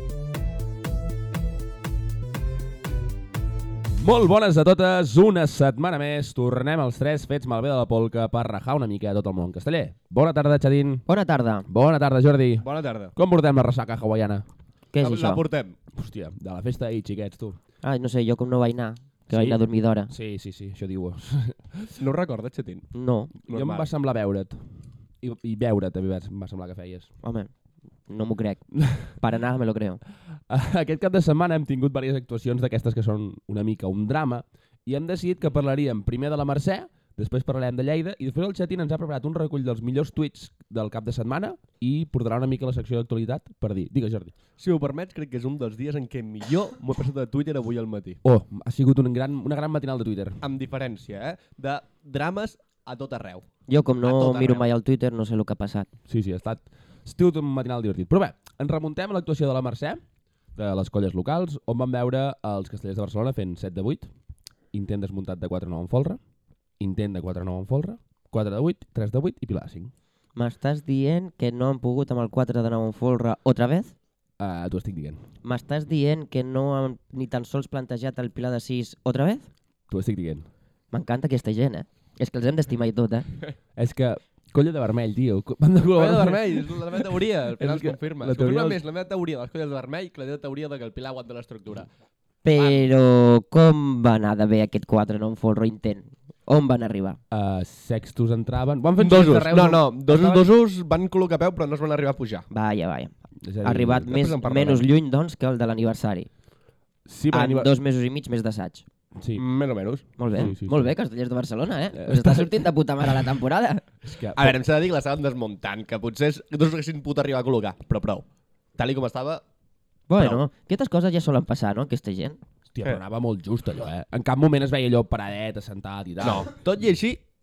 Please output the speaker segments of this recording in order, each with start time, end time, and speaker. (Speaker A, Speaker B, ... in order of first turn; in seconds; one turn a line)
Speaker A: 4.0-11.0
Speaker B: 11.1-11.6
Speaker A: 11.7-14.4
Speaker C: 12.6-13.1
Speaker B: 14.9-15.4
Speaker C: 15.0-15.8
Speaker A: 15.9-17.6
Speaker B: 17.8-20.1
Speaker A: 19.3-19.6
Speaker A: 20.1-22.0
Speaker C: 22.0-22.9
Speaker B: 22.9-23.3
Speaker C: 23.5-23.9
Speaker A: 23.5-24.6
Speaker A: 25.2-27.1
Speaker B: 27.2-27.5
Speaker B: 28.1-30.0
Speaker A: 28.8-29.1
Speaker A: 30.5-44.3
Speaker C: 44.6-48.2
Speaker A: 48.2-50.4
Speaker C: 50.4-53.5
Speaker B: 53.7-55.9
Speaker C: 54.0-54.7
Speaker A: 56.1-60.0
Speaker A: 60.5-64.1
Speaker A: 64.7-66.2
Speaker A: 66.8-69.9
Speaker B: 70.3-73.9
Speaker A: 74.4-75.2
Speaker B: 75.4-79.5
Speaker A: 79.9-80.5
Speaker B: 80.9-83.2
Speaker A: 83.8-88.8
Speaker C: 85.9-91.9
Speaker B: 92.4-97.2
Speaker A: 97.3-100.5
Speaker C: 99.0-102.5
Speaker B: 102.5-103.1
Speaker A: 103.4-104.3
Speaker B: 103.6-106.3
Speaker C: 104.1-104.8
Speaker A: 107.0-107.7
Speaker B: 107.3-108.8
Speaker A: 109.2-109.4
Speaker C: 109.3-110.5
Speaker B: 110.2-113.8
Speaker A: 110.3-110.9
Speaker A: 112.0-112.5
Speaker A: 114.0-114.5
Speaker C: 114.3-119.4
Speaker B: 120.1-122.4
Speaker C: 120.2-120.4
Speaker A: 122.7-126.5
Speaker C: 126.2-127.2